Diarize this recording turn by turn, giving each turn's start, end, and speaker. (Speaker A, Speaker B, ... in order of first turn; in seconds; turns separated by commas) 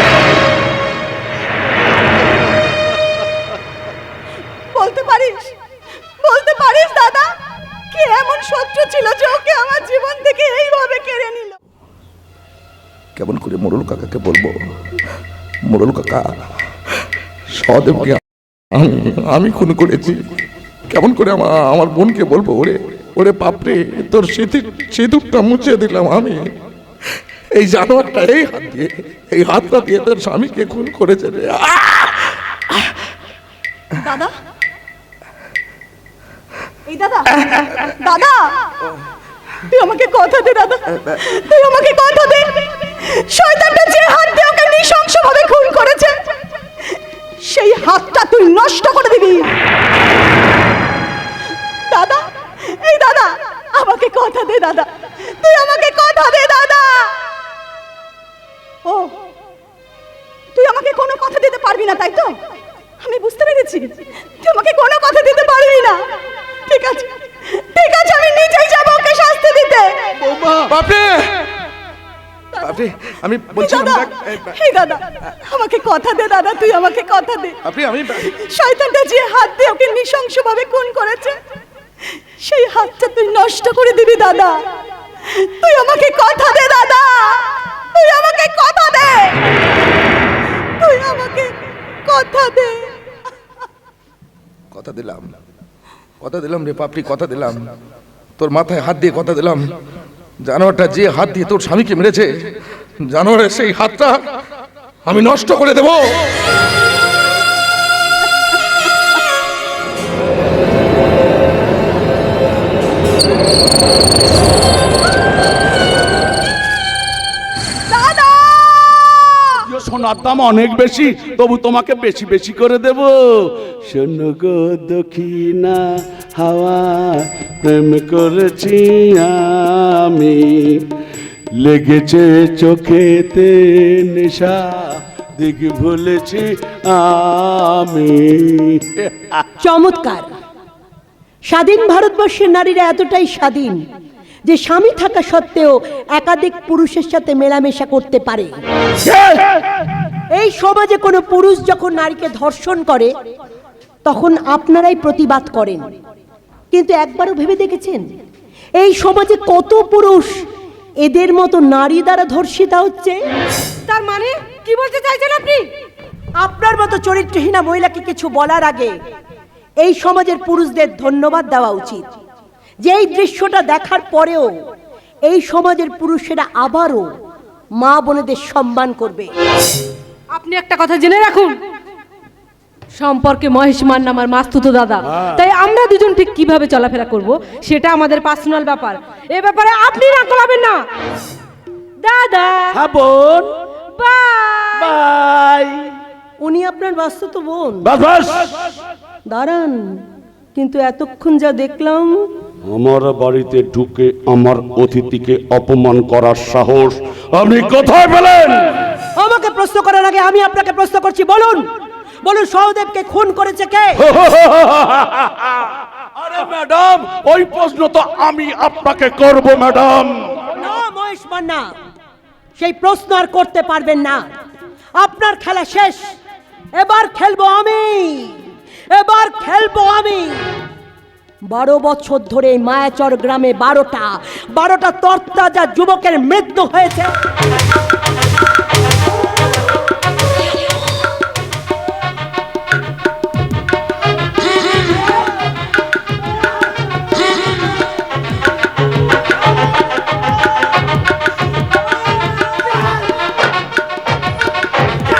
Speaker A: 4.7-5.5, Speaker A: 6.2-7.3, Speaker A: 7.9-11.6, Speaker B: 13.2-14.6, Speaker B: 15.7-16.3, Speaker B: 17.5-20.2, Speaker B: 20.9-26.4, Speaker B: 27.5-32.9, Speaker A: 34.0-34.3, Speaker A: 36.9-38.4, Speaker A: 39.7-46.3, Speaker A: 47.4-49.5, Speaker A: 51.9-52.2, Speaker A: 52.8-54.9, Speaker A: 55.4-57.1, Speaker A: 58.9-59.1, Speaker A: 60.5-62.3, Speaker A: 63.0-66.0, Speaker A: 66.7-70.4, Speaker B: 70.6-71.3, Speaker A: 72.5-72.8, Speaker B: 72.6-74.5, Speaker A: 73.5-77.5, Speaker B: 77.6-78.4, Speaker A: 78.2-81.4, Speaker A: 82.4-84.5, Speaker A: 85.4-89.4, Speaker A: 90.8-91.5, Speaker A: 92.1-92.8, Speaker B: 94.7-95.3, Speaker B: 96.2-97.6, Speaker B: 98.4-99.6, Speaker B: 100.4-102.3, Speaker B: 103.1-104.2, Speaker B: 105.0-106.1, Speaker A: 117.9-119.1, Speaker C: 119.7-125.8, Speaker C: 126.3-130.8, Speaker C: 131.6-134.6, Speaker C: 135.4-139.4, Speaker D: 139.6-140.3, Speaker D: 141.5-143.8, Speaker D: 144.5-148.5, Speaker C: 149.0-149.4, Speaker D: 150.3-153.1, Speaker D: 154.1-155.9, Speaker D: 156.7-158.0, Speaker D: 158.8-160.3, Speaker D: 161.0-163.2, Speaker D: 163.9-164.6, Speaker D: 166.4-168.9, Speaker D: 169.8-172.1, Speaker D: 172.8-174.5, Speaker D: 175.3-177.1, Speaker D: 177.8-179.3, Speaker E: 180.3-181.5, Speaker E: 183.0-190.8, Speaker C: 185.1-185.4, Speaker E: 192.0-192.6, Speaker C: 192.7-193.5, Speaker E: 194.1-194.6, Speaker C: 194.8-195.8, Speaker D: 196.4-197.9, Speaker C: 197.8-198.6, Speaker D: 199.3-199.8, Speaker D: 200.6-202.3, Speaker C: 202.7-208.7, Speaker D: 209.2-211.6, Speaker D: 212.2-214.0, Speaker C: 214.0-215.7, Speaker C: 216.2-220.4, Speaker D: 220.6-221.7, Speaker D: 222.6-224.3, Speaker D: 225.0-226.0, Speaker D: 226.8-230.4, Speaker D: 231.5-237.1